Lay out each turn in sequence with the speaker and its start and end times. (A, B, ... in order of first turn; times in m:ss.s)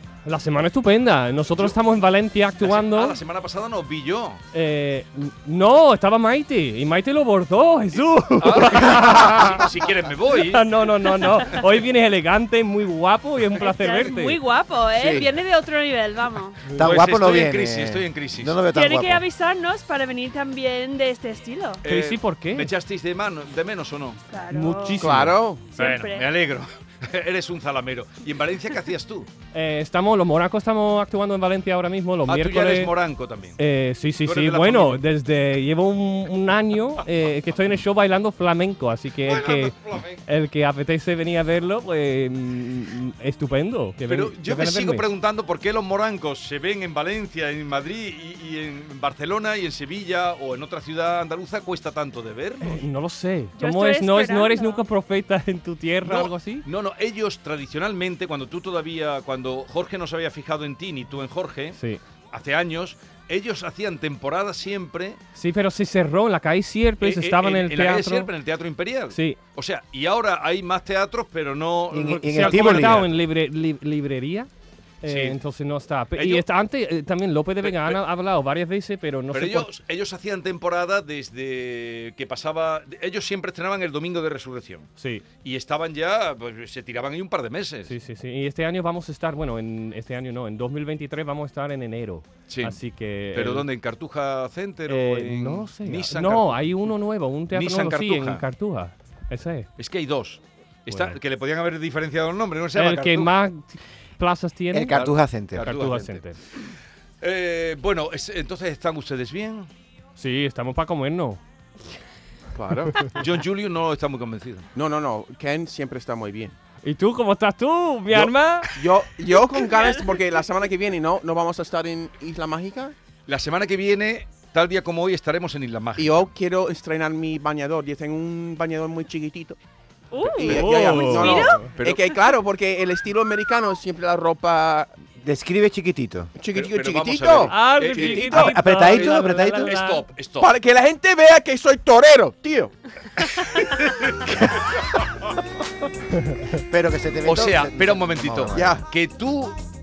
0:00.2-0:03.2 A
0:02.6-0:04.4 B
0:04.5-0:09.7 A
0:08.4-0:10.6 B
0:10.3-0:14.4 A
0:13.6-0:16.6 C
0:16.8-0:19.2 D
0:16.8-0:18.6 B
0:18.7-0:21.8 C
0:21.8-0:22.7 A
0:21.8-0:24.2 B
0:24.3-0:25.1 C
0:24.5-0:25.4 A
0:25.0-0:25.7 E
0:25.8-0:26.3 C
0:25.8-0:29.3 B
0:29.5-0:32.9 A
0:32.2-0:33.6 B
0:33.6-0:39.8 A
0:34.2-0:35.0 B
0:39.2-0:40.2 B
0:40.2-0:45.1 A
0:44.1-0:52.8 B
0:52.6-0:56.7 A
0:53.6-0:54.8 C
0:56.0-1:01.8 B
1:01.7-1:02.0 A
1:02.3-1:05.2 B
1:05.3-1:08.3 A
1:07.0-1:13.1 B
1:09.1-1:09.4 A
1:11.9-1:13.0 D
1:12.1-1:14.5 A
1:15.0-1:19.8 A
1:15.1-1:15.4 B
1:16.2-1:16.4 B
1:17.6-1:18.0 B
1:19.3-1:24.9 B
1:25.0-1:25.2 A
1:25.4-1:27.9 B
1:27.9-1:33.6 A
1:32.5-1:32.8 B
1:33.3-1:36.9 B
1:34.9-1:39.7 A
1:37.5-1:38.4 B
1:39.8-1:43.3 B
1:40.9-1:41.2 A
1:42.8-1:46.4 A
1:44.7-1:45.7 D
1:44.9-1:49.7 B
1:50.2-1:51.4 A
1:52.6-1:53.1 E
1:53.1-1:54.7 B
1:54.8-1:56.6 E
1:56.8-1:58.7 A
1:58.8-2:02.9 E
1:59.5-2:00.2 C
2:03.3-2:06.3 B
2:06.0-2:09.6 E
2:10.1-2:11.7 C
2:10.2-2:14.9 E
2:10.4-2:11.7 A
2:11.7-2:12.1 B
2:15.2-2:16.3 D
2:16.4-2:18.4 E
2:16.5-2:20.5 B
2:17.4-2:20.0 A
2:18.3-2:19.7 D
2:20.4-2:22.8 E
2:23.2-2:24.5 B
2:26.2-2:26.6 A
2:26.6-2:28.8 D
2:27.2-2:29.6 B
2:28.6-2:28.8 E